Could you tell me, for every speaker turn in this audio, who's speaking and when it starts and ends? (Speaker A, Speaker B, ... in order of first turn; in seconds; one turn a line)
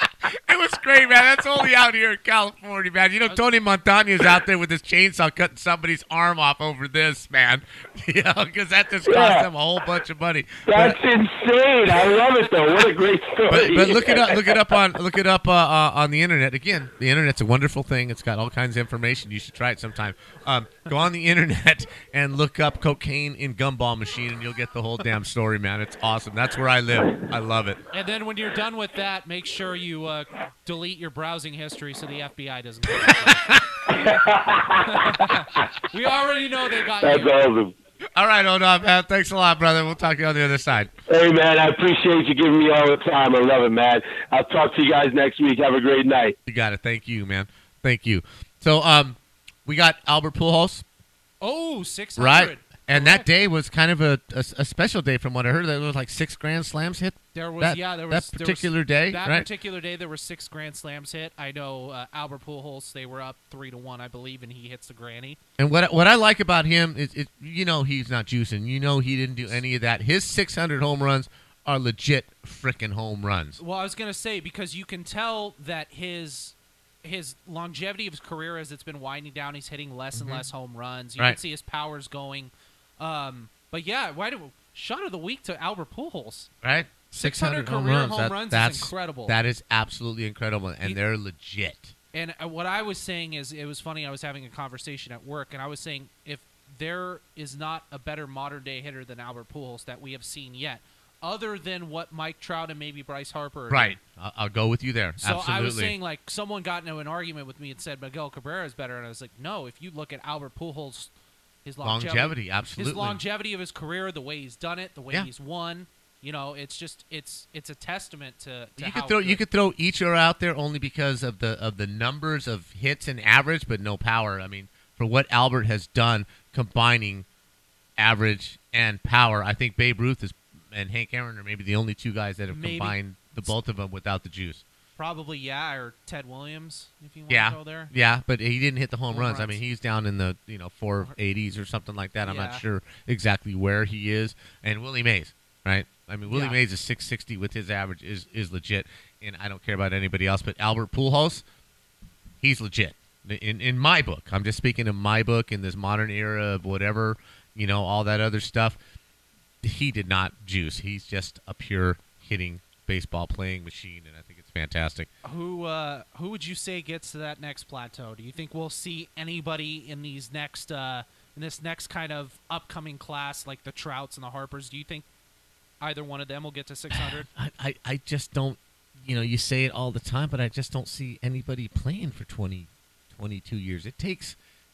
Speaker A: 0.2-11.0
Speaker B: 9.1-9.5
Speaker B: 10.7-14.6
Speaker A: 11.9-12.2
Speaker A: 13.5-27.8
Speaker C: 27.9-33.5
Speaker A: 33.1-33.9
Speaker B: 33.9-35.1
Speaker C: 34.8-37.4
Speaker B: 37.0-37.7
Speaker A: 38.1-40.9
Speaker B: 41.1-46.4
Speaker A: 46.5-50.8
Speaker C: 51.4-53.3
Speaker A: 52.2-59.5
Speaker C: 57.3-65.4
Speaker A: 65.6-73.6
Speaker C: 73.6-86.5
Speaker A: 80.1-80.4
Speaker A: 86.6-91.9
Speaker C: 87.1-89.3
Speaker C: 92.1-104.0
Speaker A: 103.7-105.9
Speaker C: 105.2-111.1
Speaker C: 111.6-119.4
Speaker A: 111.8-113.2
Speaker A: 118.8-127.2
Speaker A: 128.0-134.6
Speaker C: 132.5-133.6
Speaker C: 135.0-137.9
Speaker A: 137.3-151.4
Speaker C: 139.1-139.6
Speaker C: 142.2-142.6
Speaker C: 146.3-146.6
Speaker A: 152.4-158.8
Speaker A: 159.6-165.1
Speaker C: 165.2-175.1
Speaker C: 175.8-177.3
Speaker A: 176.9-184.4